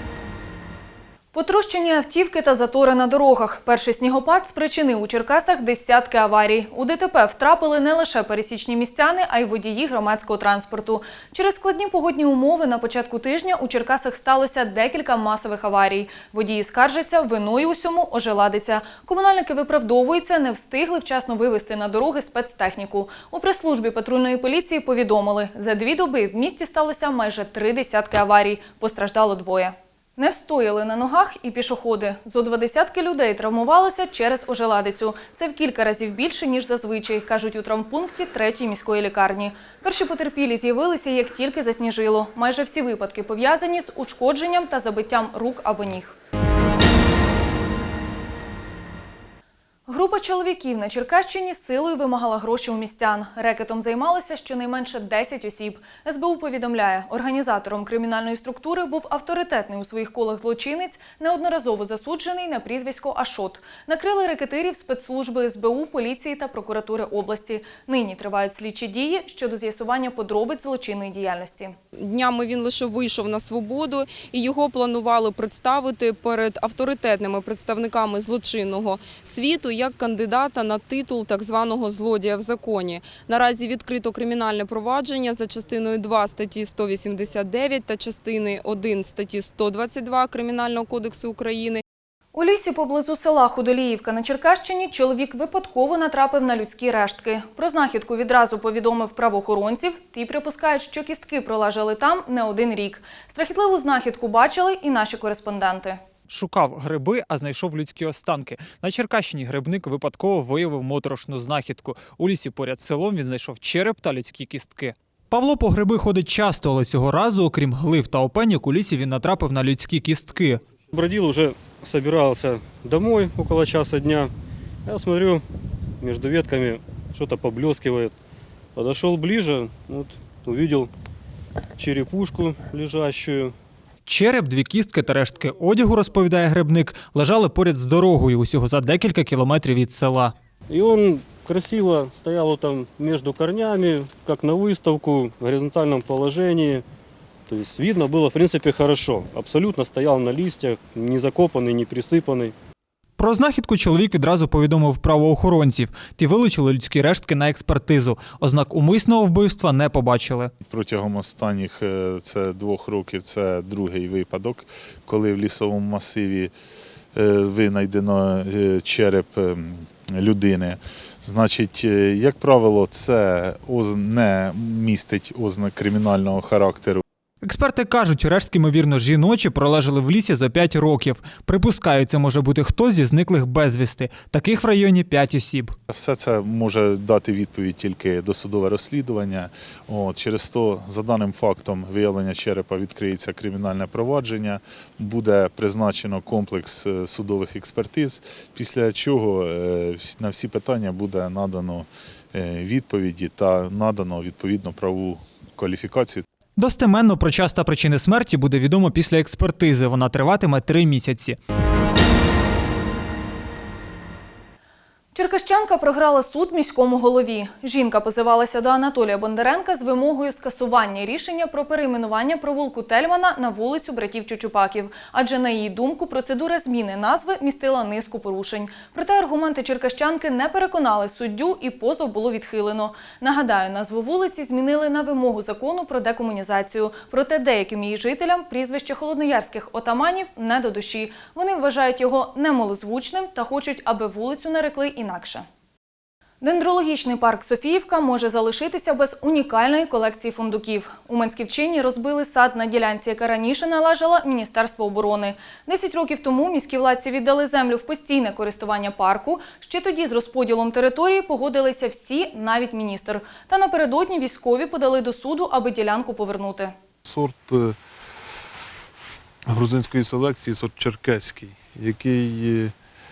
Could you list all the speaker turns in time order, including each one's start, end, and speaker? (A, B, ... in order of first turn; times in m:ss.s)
0:01.3-0:46.2 A
0:49.9-1:11.8 A
1:12.0-1:31.8 B
1:32.3-1:46.0 A
1:46.3-2:00.6 C
2:00.9-2:04.3 D
2:04.8-2:05.4 D
2:06.0-2:08.1 D
2:08.8-2:10.9 D
2:11.8-2:13.5 D
2:14.1-2:20.3 C
2:20.7-2:26.8 D
2:27.5-2:32.5 D
2:33.2-2:40.5 C
2:40.6-2:46.5 E
2:47.1-2:57.0 E
2:57.4-3:05.8 C
3:05.9-3:26.2 E
3:26.6-3:31.4 C
3:35.2-4:05.5 A
4:06.4-4:26.7 A
4:27.1-4:27.8 F
4:29.5-4:32.7 F